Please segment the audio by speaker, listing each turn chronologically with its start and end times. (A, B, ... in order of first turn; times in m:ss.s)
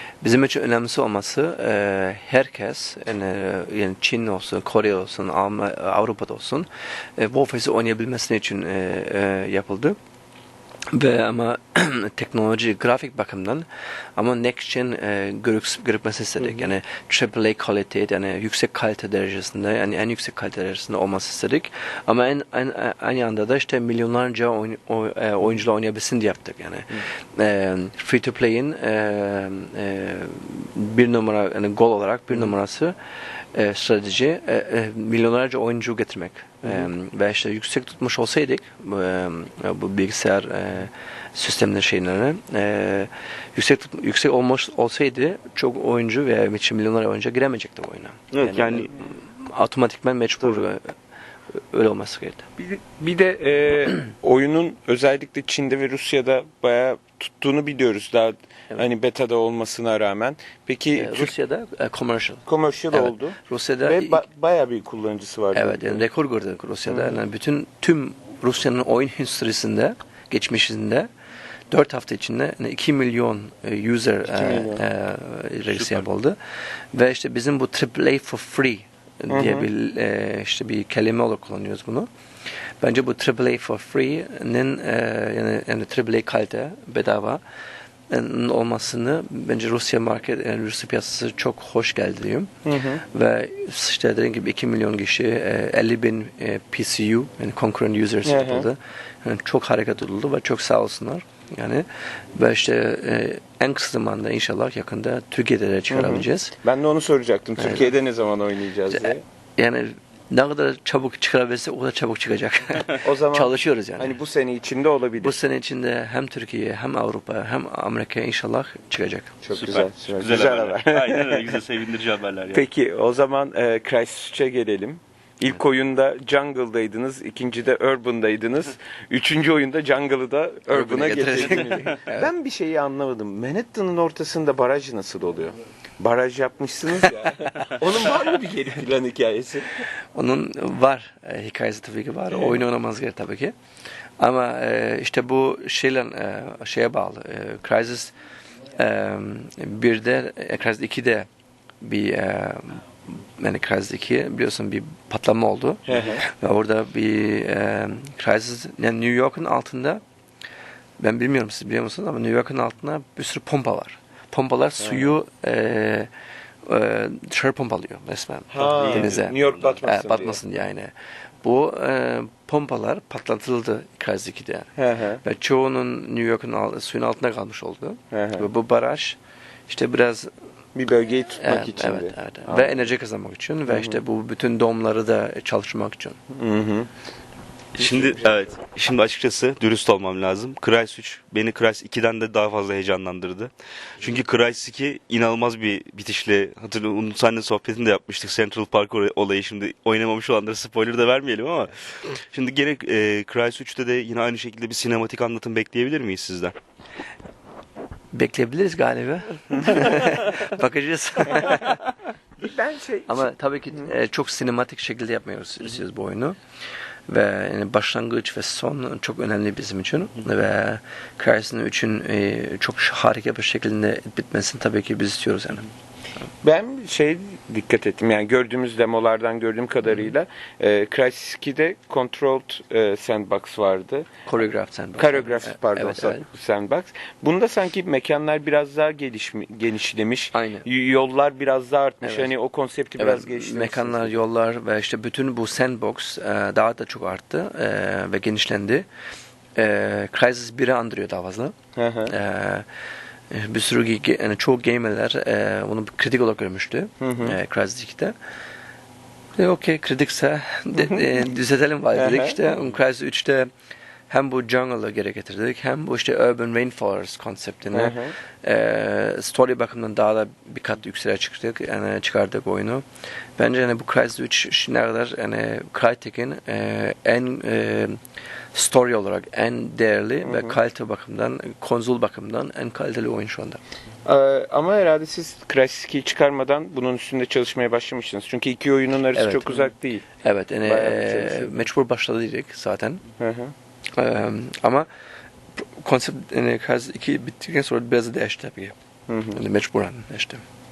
0:00.2-0:10.0 A
0:10.9-0:51.0 A
0:48.3-0:48.9 B
0:51.5-0:52.5 A
0:52.6-1:01.3 C
1:01.0-1:04.2 A
1:02.5-1:06.0 C
1:05.6-1:11.1 A
1:06.9-1:07.2 C
1:11.7-1:16.4 A
1:14.3-1:14.8 C
1:15.7-1:16.0 B
1:16.9-1:22.1 A
1:19.3-1:19.7 C
1:22.8-1:27.4 A
1:28.1-1:32.5 A
1:32.6-1:33.0 C
1:33.0-1:46.6 A
1:38.2-1:38.7 C
1:45.9-1:49.2 C
1:47.6-1:47.9 A
1:48.9-1:54.1 A
1:53.0-1:55.4 C
1:55.2-1:59.4 A
1:59.4-2:01.6 C
1:59.6-2:02.6 B
2:02.5-2:19.7 C
2:10.7-2:12.3 A
2:20.1-2:23.5 A
2:22.3-2:22.6 C
2:24.2-2:28.1 A
2:28.8-2:31.3 A
2:31.8-2:40.0 A
2:35.9-2:36.2 C
2:41.0-2:46.1 A
2:44.8-2:45.1 C
2:46.7-2:54.7 A
2:48.5-2:50.4 C
2:48.6-2:49.8 B
2:54.8-2:55.2 C
2:55.2-3:00.3 A
2:58.1-2:58.5 C
3:00.8-3:02.8 C
3:01.4-3:06.2 A
3:03.7-3:04.0 C
3:06.3-3:06.9 C
3:07.8-3:26.5 B
3:28.1-3:31.8 A
3:32.4-3:33.9 C
3:33.1-3:36.4 A
3:37.1-3:45.7 A
3:46.4-3:54.1 C
3:54.3-3:56.2 A
3:55.0-4:04.2 C
4:00.3-4:00.6 A
4:02.0-4:02.3 A
4:03.0-4:08.9 A
4:09.6-4:11.6 A
4:11.8-4:12.1 C
4:12.1-4:12.6 A
4:13.3-4:18.2 A
4:17.0-4:17.4 C
4:19.4-4:23.5 A
4:22.0-4:22.4 C
4:24.1-4:32.8 A
4:27.7-4:28.1 C
4:33.4-4:38.0 A
4:38.5-4:43.6 A
4:40.2-4:40.6 C
4:44.0-4:50.1 C
4:49.2-4:49.7 A
4:50.2-4:53.0 A
4:50.6-4:51.6 C
4:53.2-4:53.5 C
4:54.0-4:54.9 A
4:55.6-4:58.8 A
4:59.1-4:59.4 C
4:59.4-5:00.4 A